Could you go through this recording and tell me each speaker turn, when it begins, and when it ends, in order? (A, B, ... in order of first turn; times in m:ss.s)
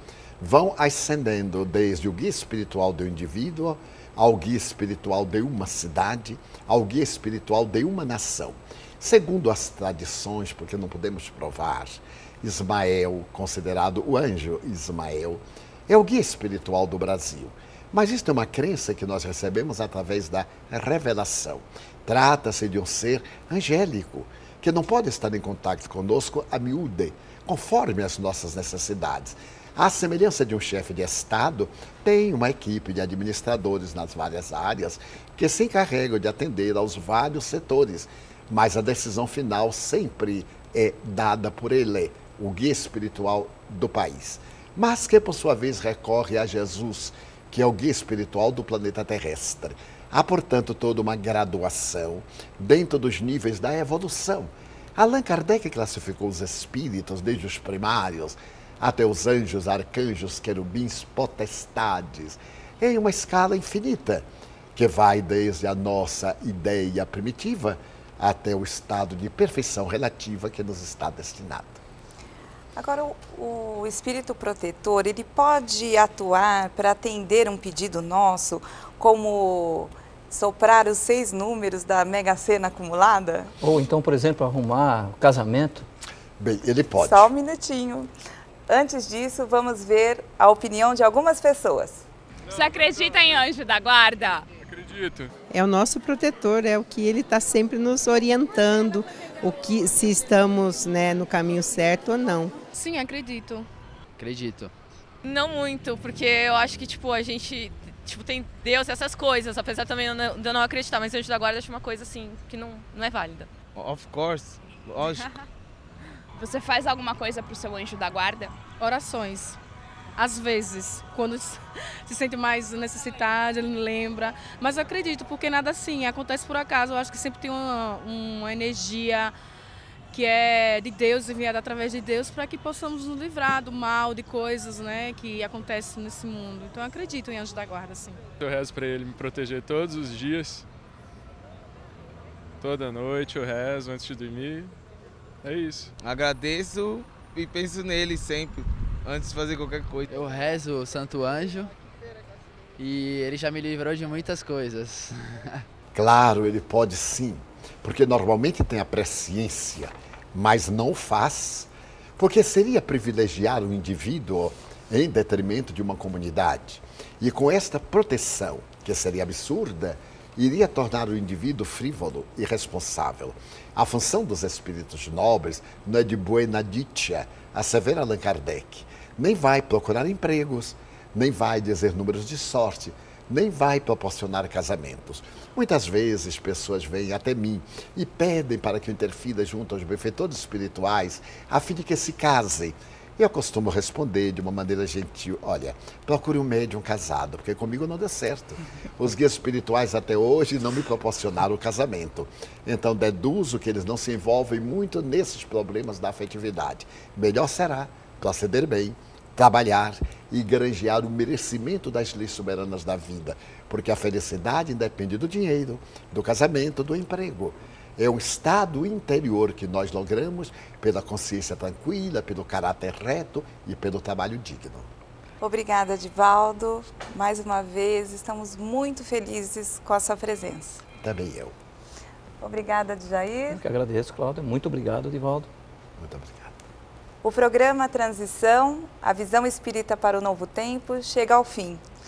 0:00.4-1:11.8 A
1:12.8-1:23.5 B
1:23.6-1:25.9 C
1:26.4-1:27.3 A
1:27.0-1:28.1 B
1:28.7-1:32.0 B
1:32.5-1:34.5 D
1:34.7-1:35.3 E
1:35.5-1:42.6 F
1:42.8-1:43.7 G
1:44.2-1:44.7 H
1:45.2-1:53.5 I
1:53.8-1:55.3 J
1:56.4-1:58.5 D
1:58.8-1:59.6 G
2:00.2-2:09.3 G
2:10.1-2:18.2 G
2:18.4-2:20.6 E
2:22.6-2:24.7 E
2:25.4-2:25.9 E
2:26.0-2:30.1 J
2:30.1-2:31.7 H
2:32.8-2:35.7 H
2:35.9-3:44.9 A
3:45.4-3:50.8 B
3:51.0-3:51.5 A
3:52.4-3:53.6 B
3:53.5-3:55.5 C
3:56.0-3:56.6 A
3:57.2-4:01.8 B